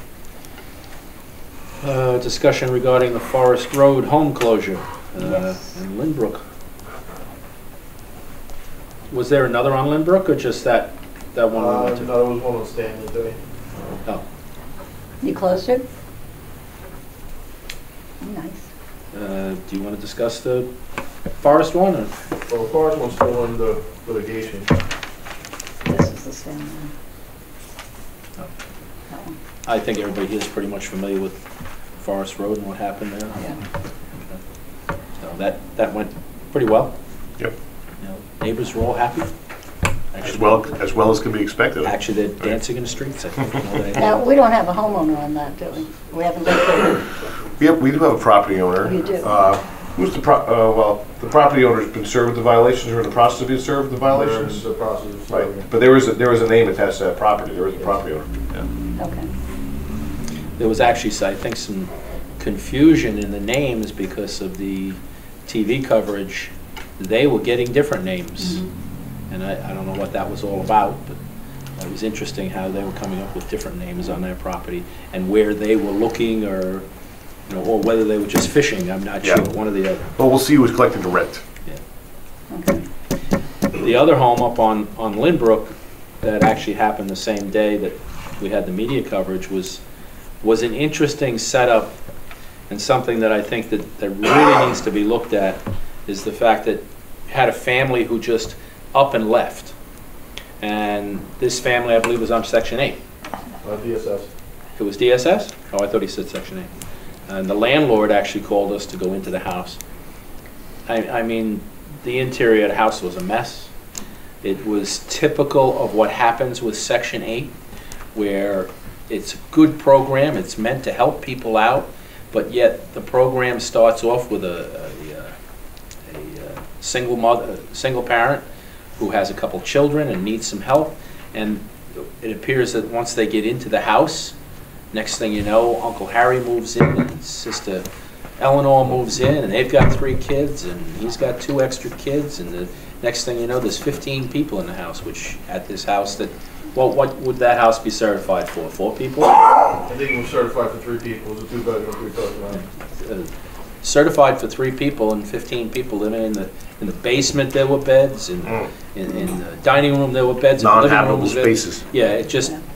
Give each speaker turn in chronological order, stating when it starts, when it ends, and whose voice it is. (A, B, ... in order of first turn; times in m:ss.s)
0:01.8-0:06.4 A
0:05.2-0:05.5 B
0:09.1-0:12.1 A
0:11.5-0:13.4 C
0:15.2-0:15.8 B
0:18.2-0:18.6 B
0:19.1-0:20.7 A
0:21.4-0:22.1 A
0:22.5-0:24.7 C
0:25.8-0:26.9 B
0:29.6-0:31.4 A
0:32.0-0:33.6 A
0:35.2-0:36.9 A
0:38.0-0:39.3 A
0:40.1-0:40.7 A
0:40.2-0:42.6 D
0:41.8-0:44.3 A
0:44.0-0:47.0 B
0:47.6-0:54.6 D
0:48.8-0:49.3 B
0:54.1-0:55.7 C
0:55.3-0:58.6 D
0:59.0-0:59.3 B
1:00.6-1:08.6 A
1:08.4-1:08.7 B
1:09.3-1:11.2 A
1:11.8-1:16.8 A
1:17.5-1:20.0 A
1:20.2-1:21.4 D
1:22.5-1:22.8 B
1:23.8-1:29.8 A
1:30.4-1:32.0 A
1:32.7-1:39.7 A
1:40.6-1:43.0 A
1:43.6-1:44.3 C
1:44.8-1:46.7 A
1:47.3-1:49.8 A
1:50.9-1:53.7 A
1:54.4-1:57.5 A
1:58.1-2:05.3 A
2:06.1-2:08.4 A
2:09.0-2:14.3 A
2:14.9-2:17.8 A
2:18.4-2:29.6 A
2:29.8-2:32.6 C
2:32.6-2:33.3 A
2:33.8-2:42.5 A
2:40.6-2:41.8 D